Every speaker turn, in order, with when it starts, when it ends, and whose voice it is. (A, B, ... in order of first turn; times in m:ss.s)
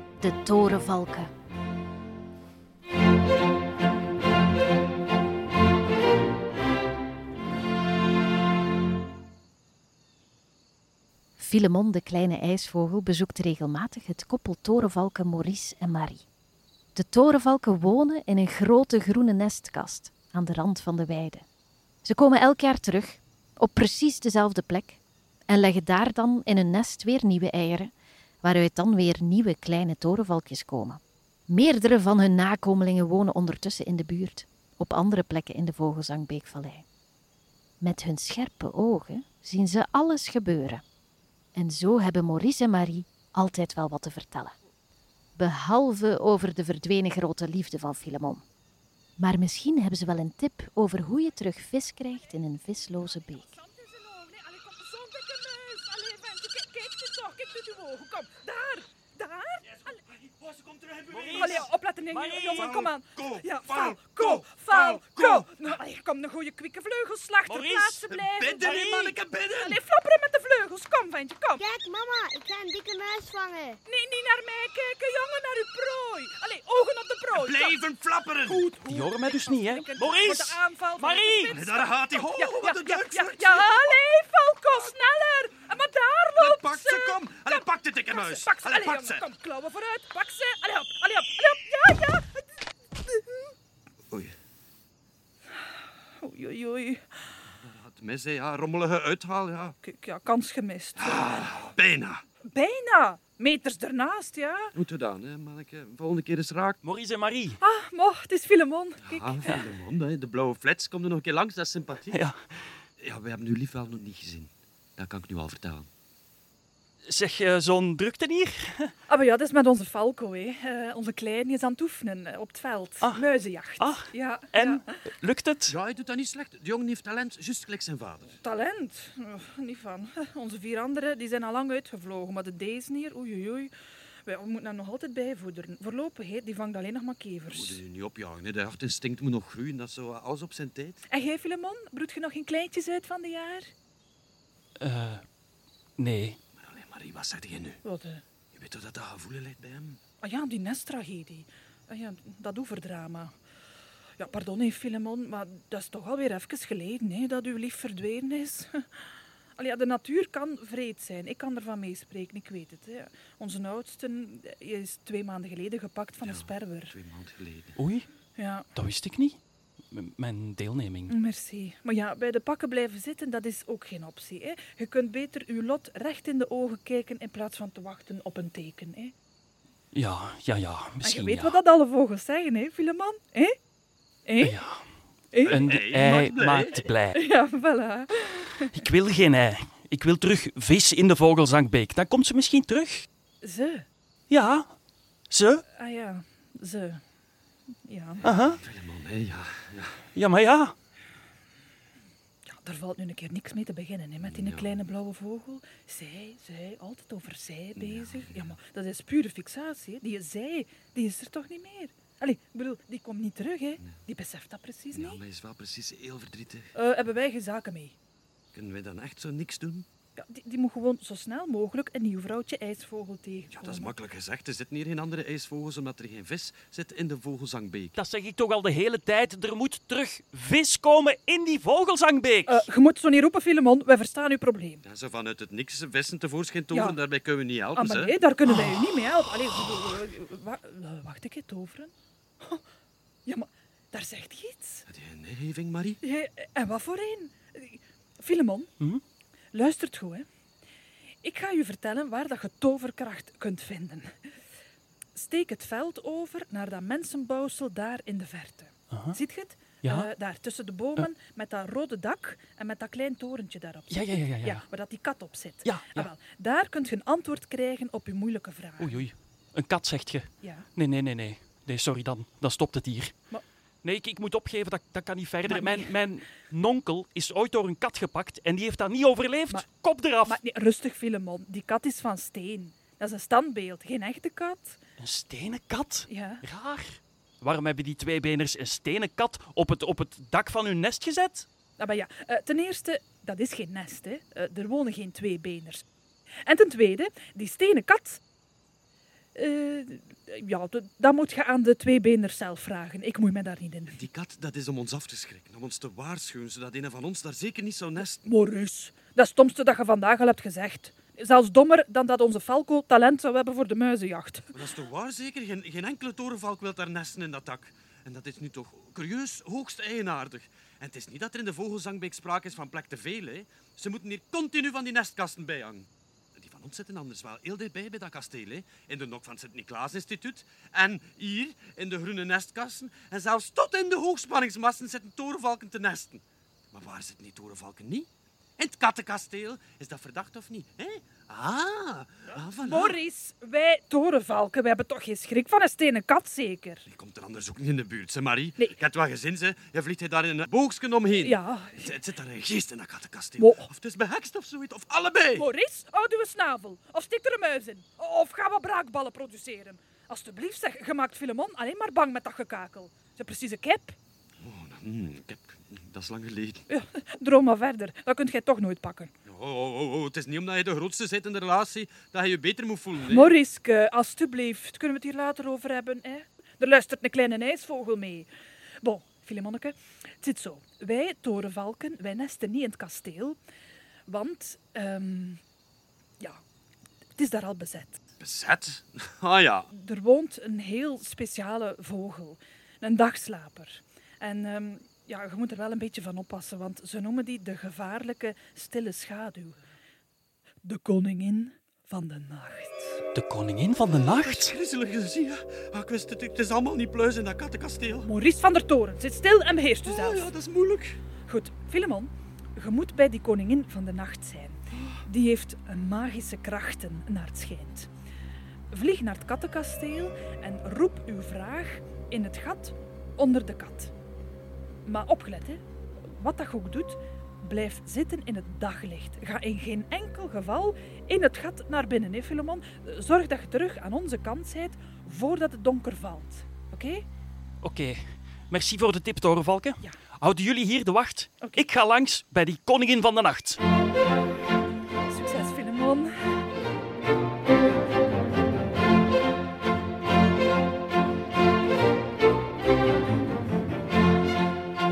0:00.2-0:01.3 A
0:11.4-0:16.3 A
0:17.0-0:21.5 A
0:22.0-0:27.9 A
0:28.4-0:36.9 A
0:37.8-0:40.8 A
0:41.6-0:44.6 A
0:45.4-0:48.4 A
0:49.2-0:53.5 A
0:52.8-1:00.0 B
1:00.2-1:01.7 C
1:01.1-1:02.8 D
1:01.3-1:08.9 B
1:02.6-1:05.7 C
1:07.5-1:08.0 D
1:08.1-1:09.8 C
1:08.6-1:09.2 D
1:09.5-1:11.7 B
1:11.6-1:13.8 E
1:13.9-1:17.8 B
1:17.3-1:18.6 C
1:18.5-1:33.5 B
1:18.9-1:21.5 D
1:21.5-1:24.0 C
1:26.4-1:29.3 C
1:36.2-1:37.3 B
1:37.5-1:39.8 C
1:39.8-1:41.5 B
1:41.0-1:42.2 C
1:42.4-1:44.7 B
1:44.8-1:46.8 C
1:46.8-1:47.6 D
1:47.6-1:49.6 B
1:49.0-1:52.2 C
1:52.1-1:52.4 D
1:53.0-1:55.9 C
1:57.1-1:58.9 D
1:59.1-2:05.0 B
2:03.8-2:05.8 D
2:05.7-2:08.4 C
2:08.4-2:13.7 B
2:14.2-2:17.8 B
2:17.5-2:21.0 C
2:21.1-2:23.7 B
2:24.8-2:25.2 D
2:26.0-2:26.4 D
2:26.6-2:27.8 C
2:27.8-2:28.2 B
2:28.5-2:30.0 C
2:30.2-2:33.3 B
2:34.2-2:46.9 B
2:46.2-2:47.8 C
2:47.8-2:48.1 D
2:48.4-2:48.7 B
2:48.8-2:49.4 D
2:49.9-2:51.1 D
2:51.1-2:59.1 B
2:59.9-3:01.6 D
3:01.0-3:03.6 B
3:04.3-3:04.6 B
3:04.4-3:04.8 D
3:05.3-3:05.7 B
3:05.4-3:07.2 D
3:05.4-3:06.7 C
3:07.1-3:08.7 B
3:08.7-3:13.1 D
3:13.4-3:13.8 B
3:14.3-3:14.7 D
3:15.3-3:15.6 D
3:15.7-3:17.0 B
3:17.9-3:18.3 B
3:18.2-3:18.6 D
3:18.4-3:20.0 C
3:20.2-3:20.7 D
3:22.5-3:35.2 B
3:24.2-3:24.8 C
3:27.8-3:28.5 C
3:34.9-3:36.7 C
3:36.8-3:38.0 B
3:38.5-3:39.9 C
3:40.2-3:43.9 B
3:43.5-3:48.0 C
3:48.0-3:52.7 D
3:52.5-3:54.8 B
3:54.8-3:58.1 C
3:56.7-3:57.0 B
3:57.7-4:02.6 B
4:03.3-4:04.9 B
4:04.9-4:06.0 C
4:06.0-4:08.7 B
4:09.5-4:10.3 B
4:11.2-4:14.2 B
4:15.2-4:29.0 B
4:18.9-4:19.2 D
4:19.8-4:20.1 D
4:23.9-4:24.6 D
4:25.6-4:26.1 D
4:28.8-4:33.2 D
4:33.8-4:40.4 D
4:35.5-4:35.9 B
4:40.2-4:44.8 B
4:45.0-4:51.5 D
4:46.1-4:46.4 B
4:51.8-4:55.8 B
4:56.5-4:58.2 B
4:59.4-5:04.0 B
5:03.9-5:08.2 C
5:08.2-5:14.5 B
5:14.5-5:43.0 C
5:42.6-5:46.9 B
5:46.9-5:55.5 C
5:51.1-5:51.9 B
5:53.4-5:53.7 B
5:55.4-6:04.0 B
6:04.4-6:06.7 C
6:06.7-6:09.1 B
6:09.3-6:13.3 C
6:13.1-6:18.3 B
6:18.8-6:23.4 B
6:24.1-6:25.4 B
6:27.2-6:28.0 B
6:28.2-6:29.7 C
6:29.7-6:39.6 B
6:40.6-6:43.0 B
6:43.1-6:44.5 D
6:44.2-6:48.1 C
6:48.0-6:50.3 B
6:49.8-6:51.0 C
6:51.3-6:57.9 B
6:58.7-7:03.9 B
7:04.8-7:17.1 B
7:17.6-7:23.6 D
7:25.1-7:26.4 B